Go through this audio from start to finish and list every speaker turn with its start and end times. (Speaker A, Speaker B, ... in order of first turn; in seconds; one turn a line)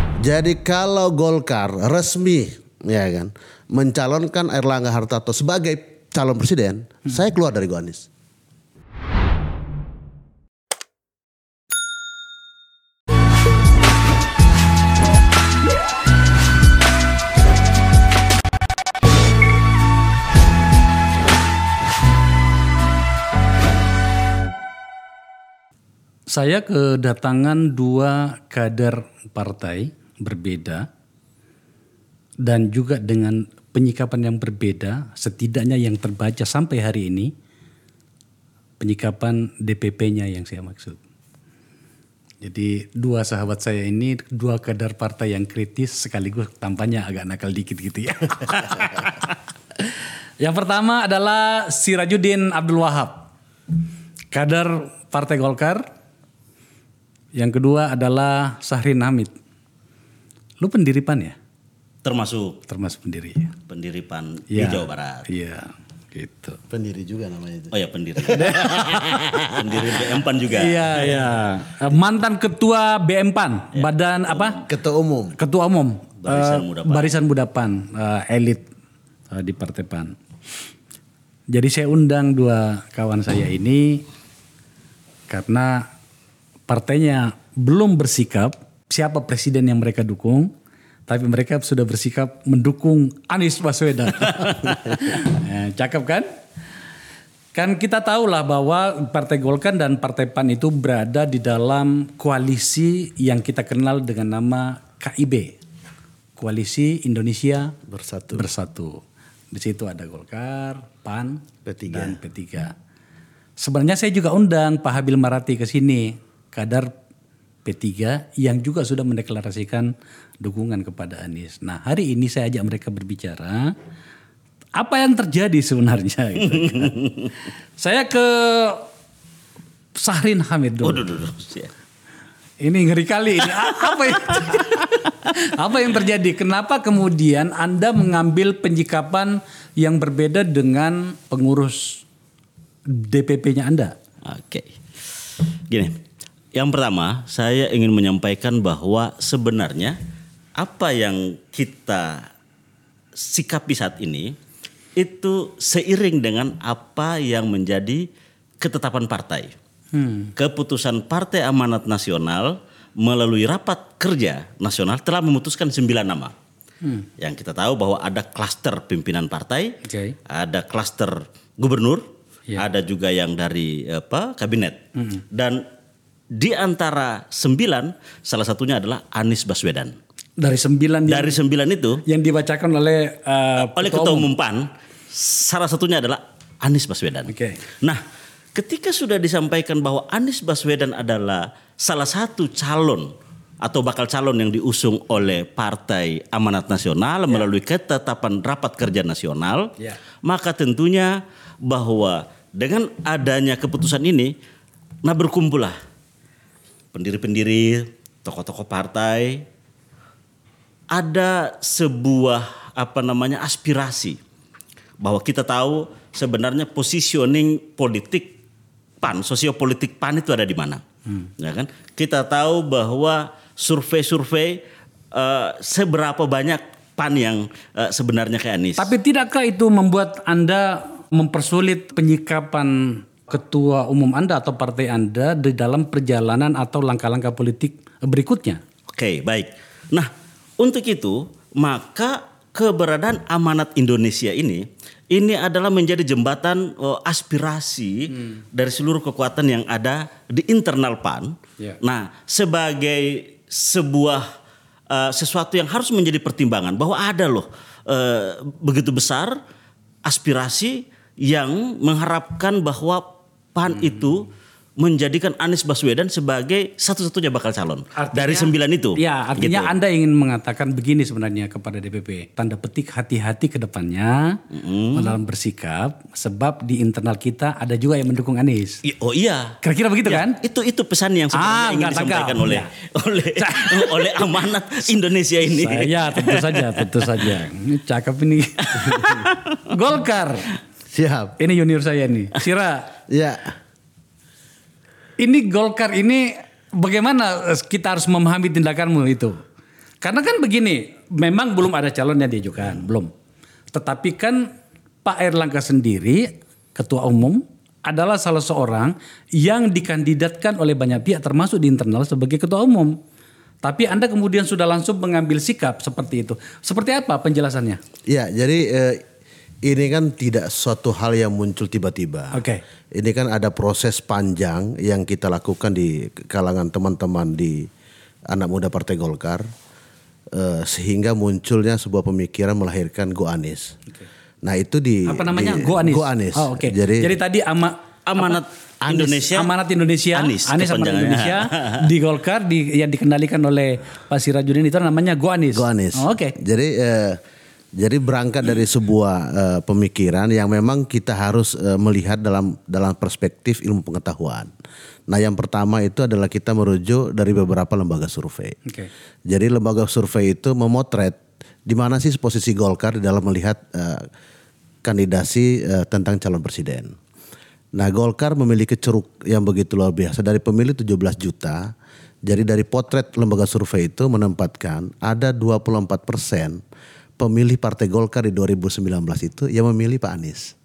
Speaker A: 0.2-8.1
Speaker B: 26.3-30.9
Speaker B: 32.4-37.3
Speaker B: 38.8-41.0
Speaker B: 42.4-49.3
Speaker B: 50.4-53.3
Speaker B: 54.3-55.8
Speaker B: 57.3-59.3
Speaker B: 60.6-61.3
Speaker C: 62.0-62.6
Speaker B: 62.7-63.5
Speaker C: 63.7-65.2
Speaker B: 64.5-66.6
Speaker A: 66.7-69.8
Speaker C: 67.7-68.9
Speaker B: 68.3-69.3
Speaker C: 69.5-71.3
Speaker B: 70.5-74.6
Speaker C: 73.7-74.6
Speaker A: 74.7-75.4
Speaker B: 75.4-78.6
Speaker C: 76.2-77.2
Speaker B: 79.3-80.1
Speaker B: 81.5-84.0
Speaker B: 85.3-85.9
Speaker B: 86.7-90.5
Speaker B: 91.1-96.2
Speaker B: 97.5-105.5
Speaker B: 106.4-107.8
Speaker A: 107.9-108.5
Speaker B: 108.3-112.7
Speaker A: 111.7-112.2
Speaker B: 113.6-116.9
Speaker B: 117.6-123.7
Speaker B: 124.8-126.9
Speaker C: 126.6-127.3
Speaker B: 127.8-128.9
Speaker B: 129.9-131.0
Speaker C: 130.8-131.7
Speaker B: 132.6-142.0
Speaker C: 133.6-134.8
Speaker B: 142.9-143.9
Speaker C: 144.2-144.7
Speaker C: 145.7-146.0
Speaker C: 146.5-150.0
Speaker C: 150.6-152.3
Speaker C: 153.2-154.3
Speaker C: 154.9-158.1
Speaker C: 158.6-159.5
Speaker B: 159.9-160.3
Speaker C: 160.3-166.3
Speaker C: 167.2-169.8
Speaker B: 169.8-170.2
Speaker C: 170.3-172.0
Speaker C: 172.6-175.6
Speaker B: 175.0-175.2
Speaker C: 176.3-179.9
Speaker B: 180.4-181.4
Speaker C: 181.1-182.0
Speaker B: 182.1-184.3
Speaker C: 183.6-187.3
Speaker B: 187.3-187.6
Speaker C: 188.5-193.1
Speaker C: 193.6-199.7
Speaker C: 200.2-204.3
Speaker C: 205.0-205.8
Speaker C: 206.9-209.4
Speaker C: 210.9-214.2
Speaker C: 215.0-218.3
Speaker C: 219.0-220.8
Speaker C: 221.4-228.9
Speaker B: 228.8-238.6
Speaker C: 238.9-254.3
Speaker C: 254.9-259.4
Speaker C: 260.1-264.3
Speaker C: 264.8-269.7
Speaker B: 267.9-274.4
Speaker C: 274.5-275.1
Speaker B: 274.9-278.8
Speaker C: 278.8-287.4
Speaker B: 279.6-280.4
Speaker B: 281.4-282.7
Speaker B: 283.4-284.2
Speaker B: 285.5-290.5
Speaker C: 288.7-289.7
Speaker A: 290.9-291.4
Speaker B: 291.4-292.9
Speaker A: 293.1-293.6
Speaker B: 295.2-299.4
Speaker B: 300.0-303.1
Speaker B: 303.7-304.5
Speaker B: 305.0-312.9
Speaker B: 313.6-317.8
Speaker A: 318.1-319.0
Speaker A: 319.6-322.4
Speaker B: 322.3-322.6
Speaker A: 322.9-327.7
Speaker A: 328.3-329.5
Speaker A: 330.3-333.7
Speaker A: 334.4-337.1
Speaker B: 335.1-346.3
Speaker C: 338.1-339.5
Speaker C: 340.1-341.9
Speaker A: 345.5-347.2
Speaker A: 347.8-354.5
Speaker A: 355.1-358.6
Speaker A: 359.3-364.1
Speaker A: 364.8-366.9
Speaker A: 367.7-371.7
Speaker A: 372.2-376.6
Speaker A: 377.2-380.5